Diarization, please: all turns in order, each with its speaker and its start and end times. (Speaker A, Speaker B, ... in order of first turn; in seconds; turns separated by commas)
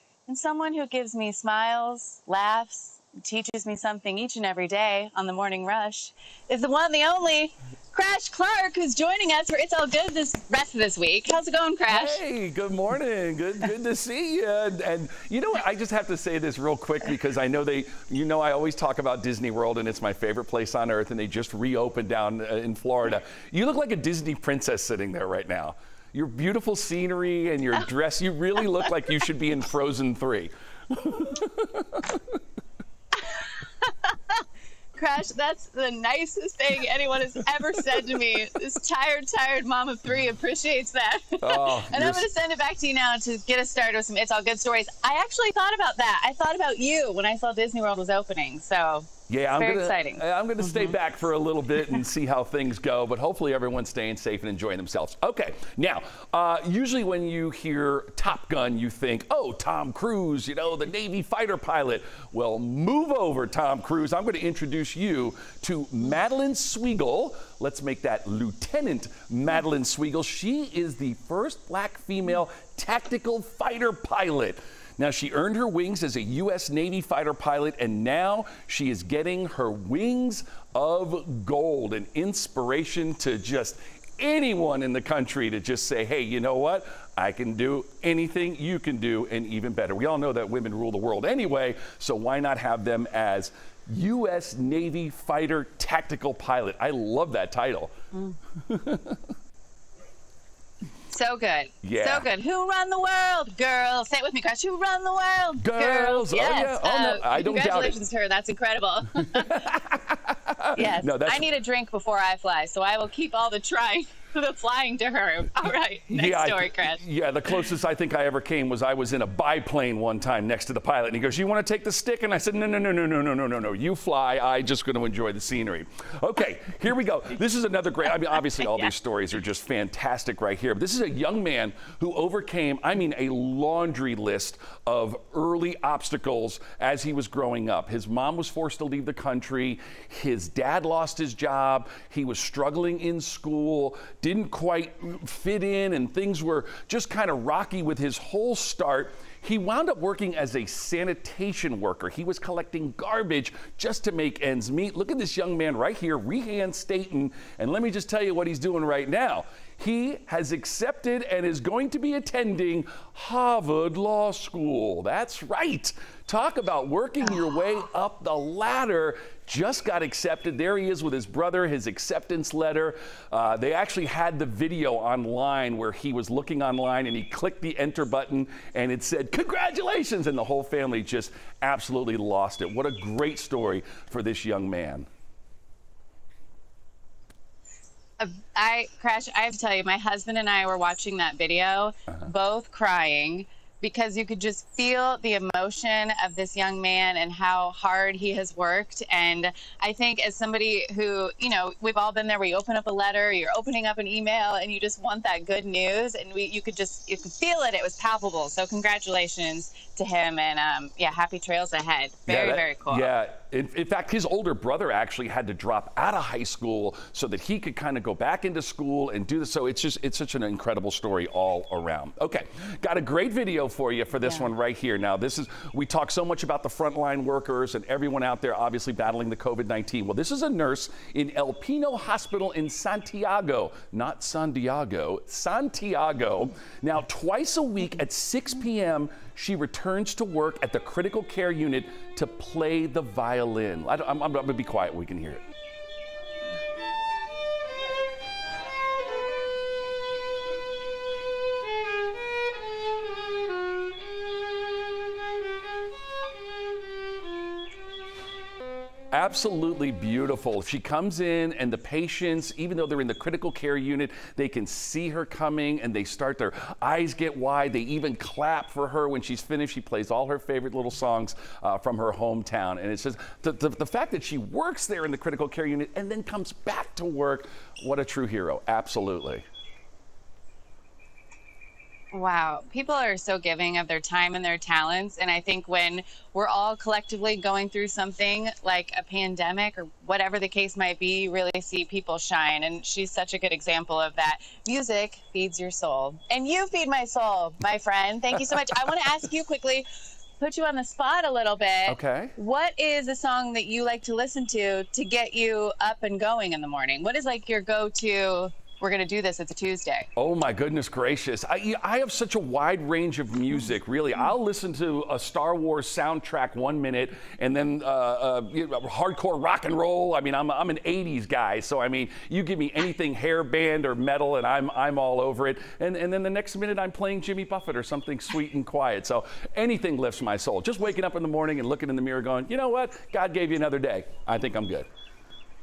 Speaker A: 0.3-12.2, Speaker B: 11.9-32.4, Speaker A: 33.1-34.4, Speaker A: 34.9-50.9, Speaker B: 41.4-42.3, Speaker B: 49.3-97.9, Speaker A: 98.1-98.4, Speaker B: 98.6-99.2, Speaker A: 101.1-109.7, Speaker B: 101.8-102.3, Speaker B: 105.6-108.0, Speaker B: 109.1-111.5, Speaker A: 110.8-117.0, Speaker B: 116.1-185.1, Speaker A: 128.6-128.8, Speaker A: 188.2-213.1, Speaker B: 212.3-245.4, Speaker A: 224.2-224.5, Speaker B: 259.1-279.4, Speaker A: 282.1-299.9, Speaker A: 300.4-310.1, Speaker B: 301.9-302.4, Speaker B: 310.1-334.9